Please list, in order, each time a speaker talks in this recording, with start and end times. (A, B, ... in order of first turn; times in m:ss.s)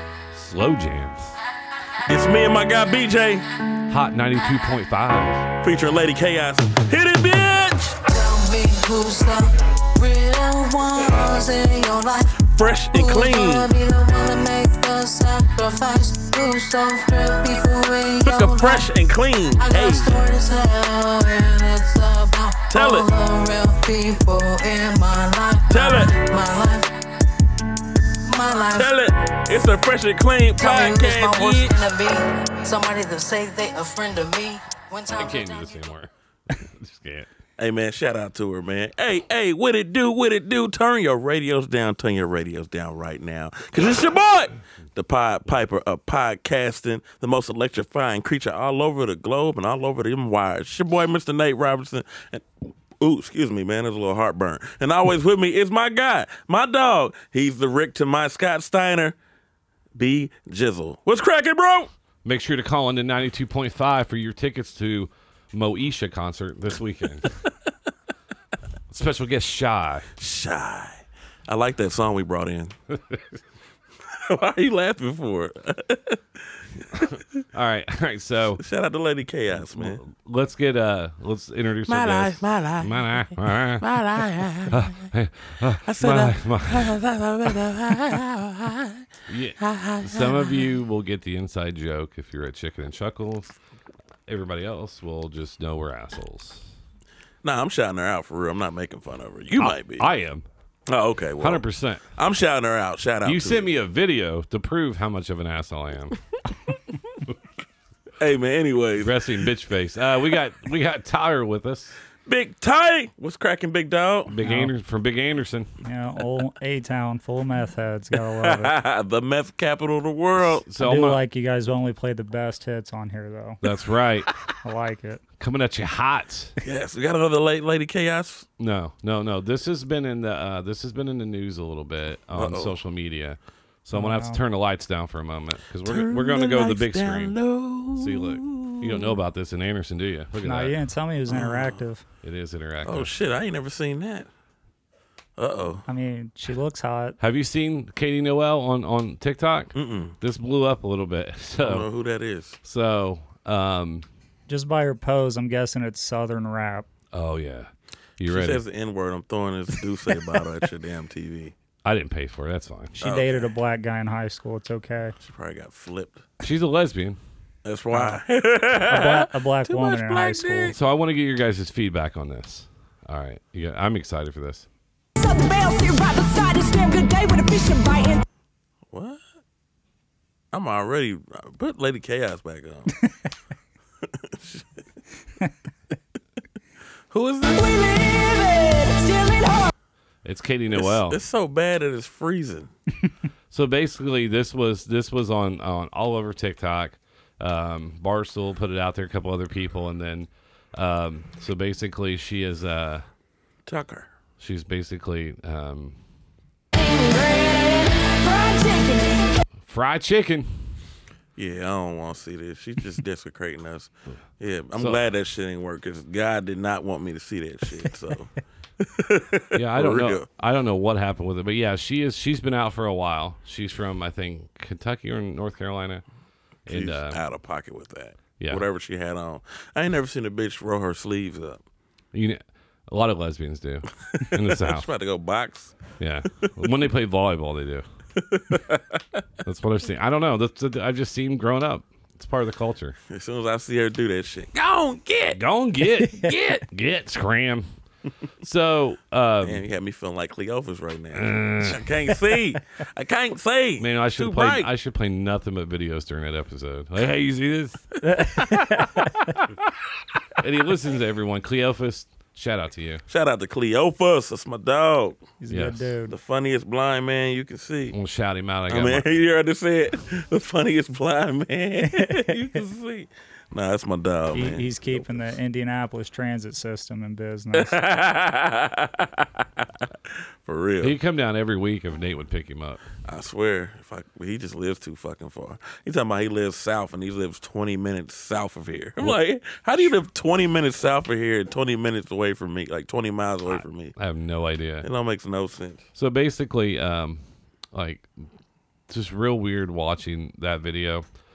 0:00.3-0:01.4 A
0:02.0-0:03.4 B
0:03.9-0:05.5 A
0:05.6-0:08.0 B
0:08.0-0:18.9 C
0:12.4-0:13.7 B
0:18.2-0:20.2 B
0:19.6-0:26.9 C
0:22.7-0:23.1 B
0:25.7-0:26.2 B
0:28.2-0:28.9 C
0:28.7-0:31.8 B
0:30.6-0:35.9 C
0:35.1-0:37.3 A
0:37.6-0:52.4 B
0:53.0-0:59.2 B
0:59.9-1:01.9 B
1:02.2-1:07.3 A
1:08.9-1:10.1 A
1:10.2-1:12.7 B
1:14.1-1:17.4 B
1:17.5-1:18.6 A
1:18.6-1:20.0 B
1:19.7-1:23.9 A
1:21.8-1:23.1 B
1:23.8-1:25.0 B
1:24.7-1:27.0 A
1:25.8-1:29.1 B
1:29.3-1:33.5 A
1:29.6-1:30.7 B
1:34.2-1:36.7 A
1:37.4-1:40.1 B
1:39.6-1:40.4 A
1:40.9-1:43.6 B
1:41.4-1:42.1 A
1:43.2-1:46.2 A
1:48.2-1:49.5 B
1:49.0-1:52.0 A
1:52.3-1:54.3 B
1:54.2-1:55.7 A
1:54.4-1:54.7 D
1:55.8-1:58.7 D
1:58.4-2:00.6 B
2:00.4-2:01.2 A
2:00.8-2:03.6 D
2:03.6-2:04.3 A
2:04.6-2:05.2 D
2:05.4-2:06.5 A
2:06.6-2:08.5 B
2:08.6-2:17.4 A
2:12.3-2:12.8 B
2:13.9-2:14.4 D
2:15.8-2:19.2 B
2:18.0-2:20.8 A
2:20.4-2:22.0 D
2:21.3-2:21.8 B
2:22.2-2:23.1 A
2:22.8-2:24.3 B
2:25.4-2:25.8 B
2:25.9-2:27.2 D
2:27.2-2:31.9 A
2:29.7-2:30.2 B
2:31.6-2:32.6 B
2:32.6-2:34.0 A
2:34.5-2:36.9 D
2:37.1-2:38.6 A
2:38.2-2:41.5 B
2:41.8-2:43.0 A
2:43.0-2:45.2 D
2:43.0-2:43.5 B
2:45.2-2:46.3 B
2:46.4-2:47.2 A
2:47.6-2:50.8 B
2:47.9-2:48.2 D
2:48.8-2:50.7 D
2:50.7-2:54.6 A
2:55.2-2:58.2 E
2:58.9-2:59.2 B
3:00.5-3:03.1 B
3:04.2-3:04.6 B
3:07.1-3:07.6 B
3:07.4-3:09.7 E
3:10.2-3:11.2 A
3:10.7-3:12.7 B
3:13.5-3:23.0 A
3:23.7-3:24.1 B
3:24.4-3:26.0 A
3:26.7-3:29.3 E
3:29.6-3:30.7 A
3:31.4-3:40.2 B
3:34.7-3:35.0 A
3:39.5-3:46.0 A
3:46.6-3:47.2 A
3:46.7-3:51.6 B
3:48.4-3:48.6 A
3:52.1-3:54.9 A
3:54.1-3:55.8 B
3:56.0-3:57.8 A
3:58.2-3:59.0 B
3:59.4-4:03.0 A
4:03.1-4:05.4 B
4:05.3-4:07.7 A
4:08.4-4:09.6 A
4:09.4-4:14.7 B
4:11.1-4:11.9 A
4:13.8-4:17.9 A
4:18.0-4:19.1 D
4:20.4-4:23.0 A
4:23.1-4:25.3 B
4:25.4-4:26.1 D
4:25.5-4:25.9 A
4:26.1-4:28.0 B
4:27.9-4:29.0 A
4:28.7-4:35.3 B
4:32.0-4:32.3 D
4:34.3-4:37.8 D
4:37.5-4:39.6 B
4:40.4-4:41.0 B
4:40.8-4:42.8 A
4:43.0-4:54.0 B
4:53.5-4:54.9 A
4:54.8-4:55.9 B
4:56.0-4:58.3 A
4:58.9-5:01.0 A